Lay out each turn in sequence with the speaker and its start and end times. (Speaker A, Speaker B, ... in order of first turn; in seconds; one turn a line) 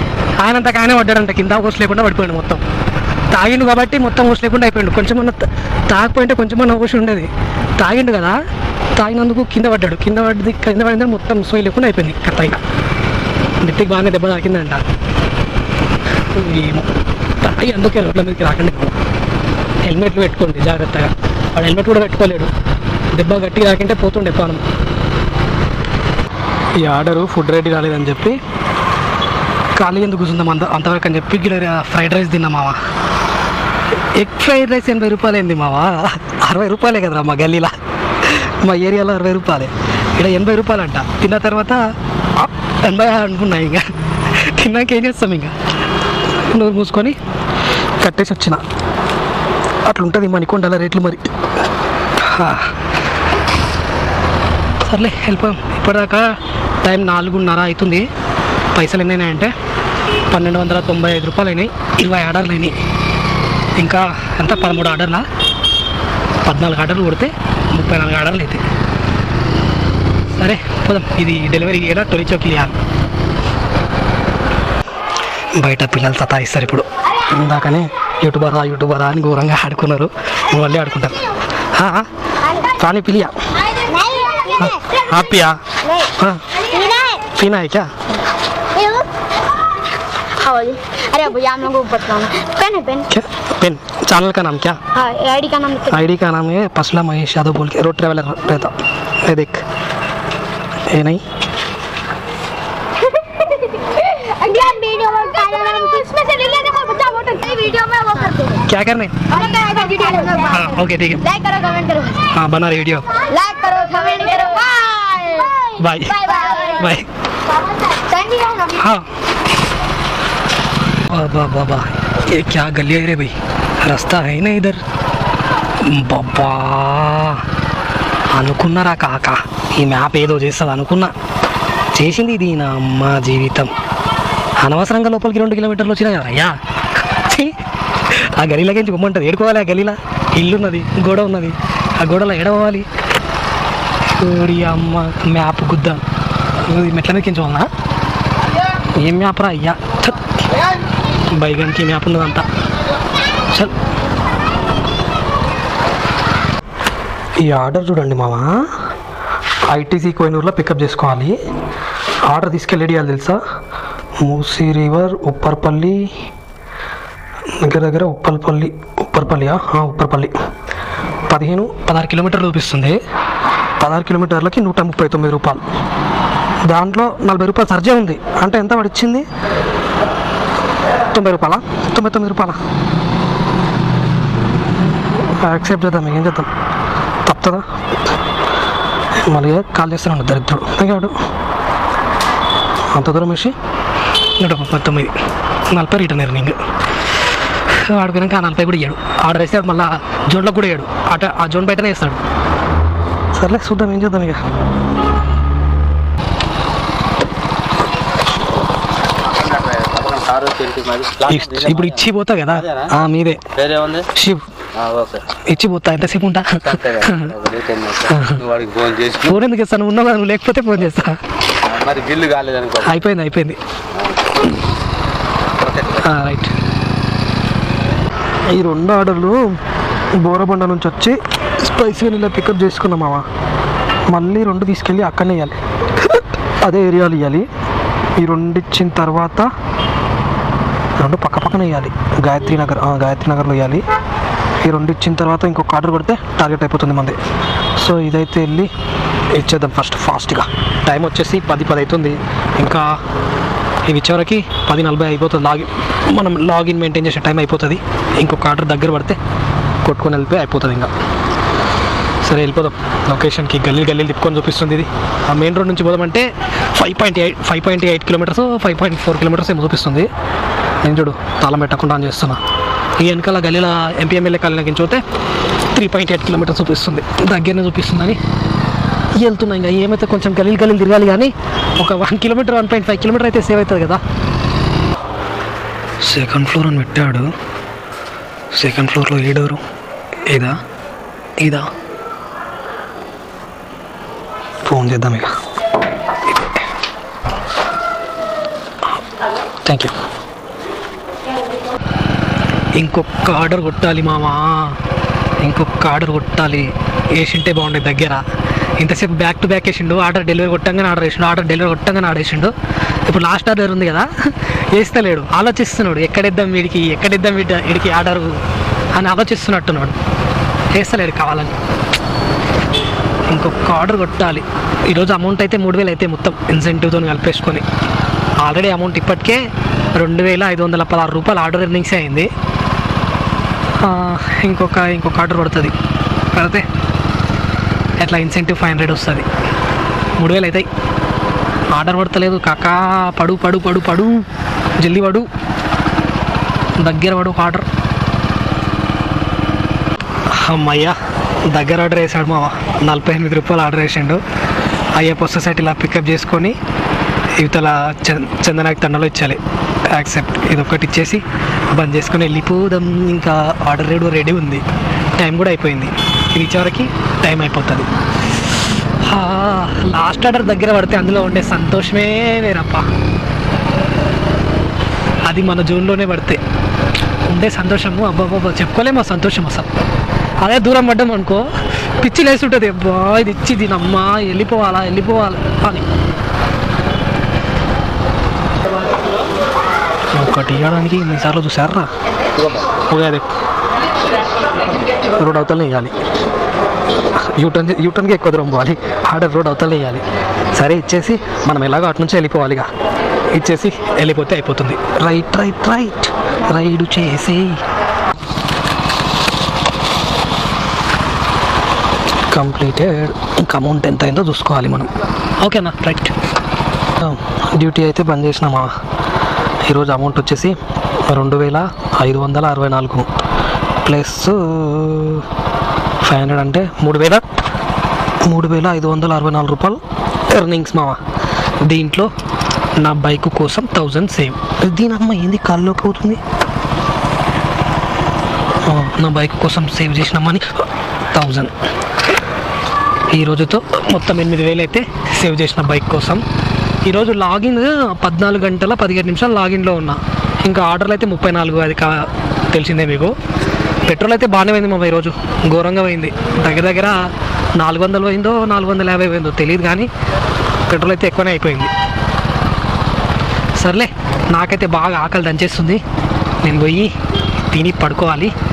Speaker A: 0.4-2.6
Speaker A: 3.3-8.4
Speaker A: 8.9-12.6
Speaker A: 13.6-14.8
Speaker A: 16.4-16.9
Speaker A: 17.4-18.9
Speaker A: 19.9-22.5
Speaker A: 23.1-24.6
Speaker A: 26.8-28.4
Speaker A: 29.8-32.8
Speaker A: 34.1-37.8
Speaker A: 38.5-43.8
Speaker A: 44.5-45.5
Speaker A: 46.4-47.2
Speaker A: 48.0-48.6
Speaker A: 49.9-51.3
Speaker A: 52.3-52.7
Speaker A: 54.9-56.3
Speaker A: 56.8-58.1
Speaker A: 58.8-59.5
Speaker A: 60.3-62.8
Speaker A: 63.8-65.3
Speaker A: 66.4-68.6
Speaker A: 70.4-72.8
Speaker A: 75.6-81.2
Speaker A: 81.8-82.1
Speaker B: 82.5-82.8
Speaker A: 82.7-83.3
Speaker B: 83.8-85.0
Speaker A: 85.0-85.6
Speaker B: 85.8-87.3
Speaker A: 86.2-86.4
Speaker A: 87.3-87.9
Speaker B: 88.8-89.1
Speaker B: 90.4-93.1
Speaker A: 93.1-94.8
Speaker B: 95.0-96.1
Speaker A: 95.9-99.6
Speaker A: 100.9-101.2
Speaker B: 103.1-108.7
Speaker A: 108.7-109.2
Speaker B: 109.3-112.2
Speaker A: 110.5-111.3
Speaker A: 112.3-113.1
Speaker B: 113.1-116.8
Speaker A: 115.8-116.2
Speaker A: 116.8-117.1
Speaker B: 117.6-118.8
Speaker A: 118.7-119.1
Speaker A: 121.1-124.8
Speaker A: 125.9-127.5
Speaker A: 128.3-131.1
Speaker A: 131.9-133.7
Speaker A: 134.6-136.6
Speaker A: 137.2-137.5
Speaker A: 138.2-142.9
Speaker A: 144.1-146.0
Speaker A: 146.6-147.7
Speaker A: 149.0-150.2
Speaker A: 151.3-152.4
Speaker A: 157.4-158.7
Speaker A: 159.7-161.4
Speaker A: 162.3-163.4
Speaker A: 164.2-166.2
Speaker A: 167.6-170.3
Speaker A: 171.3-173.0
Speaker A: 173.8-175.7
Speaker A: 176.7-179.3
Speaker A: 181.1-182.6
Speaker A: 185.4-186.5
Speaker A: 187.3-187.6
Speaker A: 189.3-191.1
Speaker A: 192.9-193.5
Speaker A: 194.4-195.1
Speaker A: 195.7-196.6
Speaker A: 197.8-202.2
Speaker A: 203.3-204.4
Speaker C: 209.3-212.9
Speaker A: 211.2-213.5
Speaker C: 213.6-214.1
Speaker A: 214.2-214.4
Speaker C: 214.8-215.4
Speaker A: 215.4-217.3
Speaker C: 216.7-219.4
Speaker A: 218.1-218.4
Speaker A: 219.2-221.2
Speaker C: 221.7-223.0
Speaker A: 222.8-223.6
Speaker C: 225.6-226.0
Speaker A: 226.0-226.5
Speaker A: 228.5-229.4
Speaker A: 230.2-233.2
Speaker A: 234.1-235.6
Speaker A: 236.6-237.5
Speaker A: 238.2-239.5
Speaker A: 241.0-243.8
Speaker A: 244.6-247.2
Speaker A: 247.8-248.7
Speaker A: 249.3-253.0
Speaker A: 253.9-259.2
Speaker A: 259.8-260.9
Speaker A: 262.2-270.1
Speaker A: 270.8-272.4
Speaker A: 273.0-275.0
Speaker A: 275.7-278.2
Speaker A: 279.2-284.0
Speaker A: 286.0-287.3
Speaker A: 288.5-289.6
Speaker A: 290.3-290.6
Speaker A: 291.4-291.7
Speaker A: 294.7-295.3
Speaker A: 299.6-299.9
Speaker A: 302.8-304.8
Speaker A: 305.4-308.2
Speaker A: 308.8-312.5
Speaker A: 313.1-314.1
Speaker A: 314.7-318.4
Speaker A: 318.9-320.0
Speaker A: 320.7-321.6
Speaker A: 323.3-327.6
Speaker A: 328.4-329.4
Speaker A: 329.9-332.3
Speaker A: 333.8-335.8
Speaker A: 336.3-336.6
Speaker A: 338.0-339.3
Speaker A: 340.2-340.7
Speaker A: 341.7-344.3
Speaker A: 344.8-345.3
Speaker A: 346.8-347.7
Speaker A: 350.3-351.0
Speaker A: 351.5-354.2
Speaker A: 354.9-356.6
Speaker A: 357.4-364.6
Speaker A: 365.2-367.9
Speaker A: 369.0-372.9
Speaker A: 375.3-376.4
Speaker A: 377.3-379.7
Speaker A: 380.4-381.5
Speaker A: 382.0-385.9
Speaker A: 390.1-391.9
Speaker A: 392.9-393.3
Speaker A: 395.2-395.9
Speaker A: 397.3-400.0
Speaker A: 400.6-402.7
Speaker A: 403.3-407.6
Speaker A: 412.3-416.1
Speaker A: 417.0-418.7
Speaker A: 419.6-423.1
Speaker A: 423.9-425.3
Speaker A: 426.0-427.2
Speaker A: 428.2-431.0
Speaker A: 431.6-432.1
Speaker A: 432.8-436.2
Speaker A: 438.7-440.5
Speaker A: 441.1-441.5
Speaker A: 443.1-446.2
Speaker A: 446.9-453.1
Speaker A: 453.9-457.1
Speaker A: 457.6-459.9
Speaker A: 460.7-461.7
Speaker A: 463.6-465.8
Speaker A: 466.4-466.9
Speaker A: 467.5-468.3